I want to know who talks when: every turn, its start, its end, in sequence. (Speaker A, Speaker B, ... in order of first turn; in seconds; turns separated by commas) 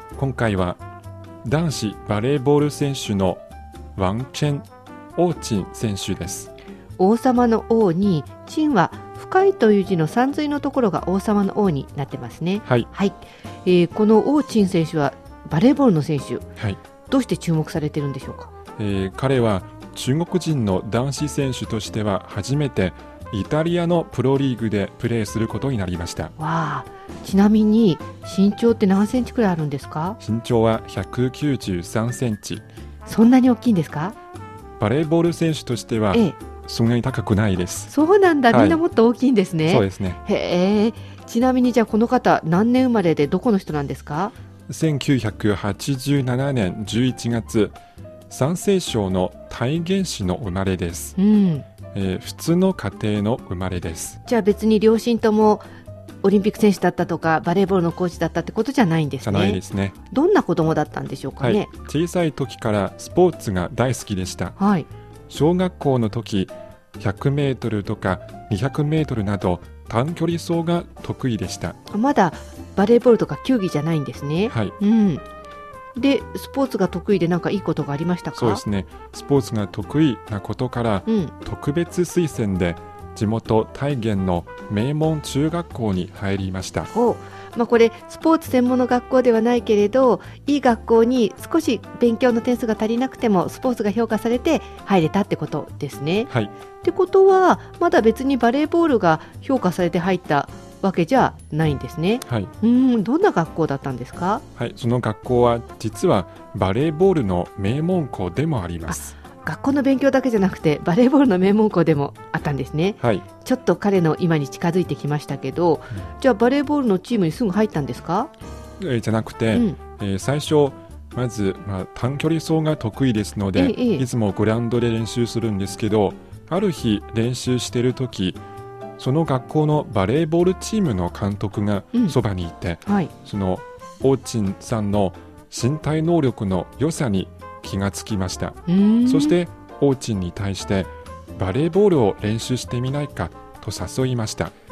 Speaker A: 0.2-0.8, Speaker A: 1.4-3.4, Speaker A: 4.0-6.5, Speaker B: 7.0-16.5, Speaker B: 17.1-18.5, Speaker A: 18.8-26.3, Speaker B: 26.4-30.2, Speaker A: 30.2-32.6, Speaker B: 33.1-34.2, Speaker A: 34.8-37.9, Speaker B: 37.9-44.3, Speaker A: 38.5-38.8, Speaker A: 39.7-40.2, Speaker A: 44.7-47.8, Speaker A: 48.3-51.2, Speaker B: 51.2-51.7, Speaker A: 51.9-54.2, Speaker B: 54.3-55.7, Speaker B: 56.2-61.7, Speaker A: 59.2-60.0, Speaker A: 61.4-64.6, Speaker B: 64.6-64.9, Speaker A: 65.3-71.8, Speaker B: 71.9-75.2, Speaker B: 76.0-78.6, Speaker A: 78.3-86.9, Speaker B: 81.1-81.3, Speaker B: 86.9-96.3, Speaker B: 96.8-104.4, Speaker A: 102.3-102.5, Speaker A: 104.6-109.1, Speaker B: 108.9-118.3, Speaker A: 113.0-113.3, Speaker A: 118.8-128.4, Speaker B: 123.5-124.0, Speaker A: 129.0-144.5, Speaker B: 132.8-133.1, Speaker B: 138.7-139.4